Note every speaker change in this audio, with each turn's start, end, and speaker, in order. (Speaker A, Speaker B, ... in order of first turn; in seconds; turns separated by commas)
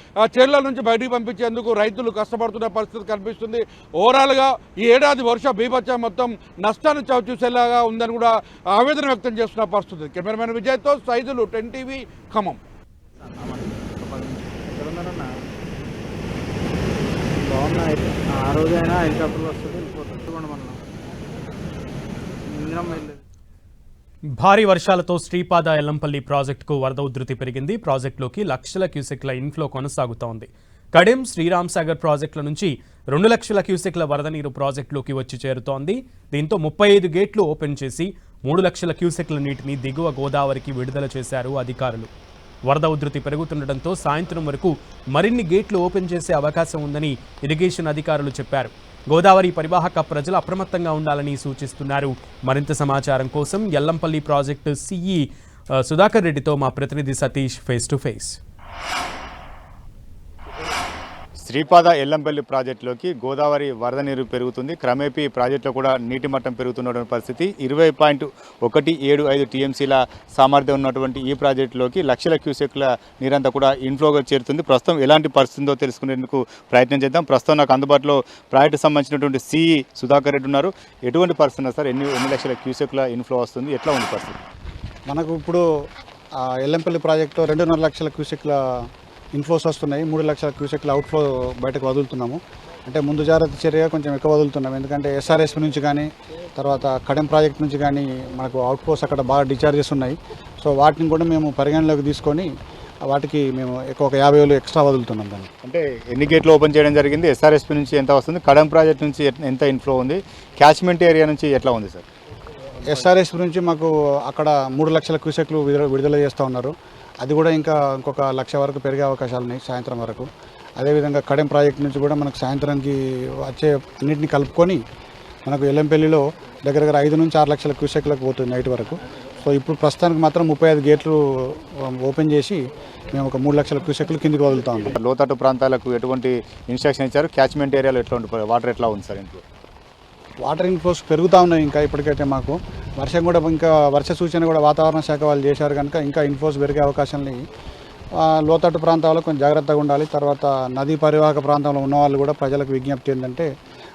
Speaker A: 0.4-8.2, Speaker A: 8.8-12.6, Speaker B: 13.3-15.3, Speaker B: 17.4-20.8, Speaker B: 22.5-23.2, Speaker C: 24.4-42.1, Speaker C: 42.7-58.4, Speaker D: 61.4-84.4, Speaker E: 85.1-85.6, Speaker E: 86.6-88.6, Speaker E: 89.3-102.5, Speaker E: 103.1-105.5, Speaker D: 105.6-112.1, Speaker E: 112.9-120.3, Speaker E: 120.8-124.8, Speaker E: 125.5-132.6, Speaker E: 133.1-134.9, Speaker D: 135.0-139.4, Speaker E: 140.4-147.4, Speaker E: 148.2-153.5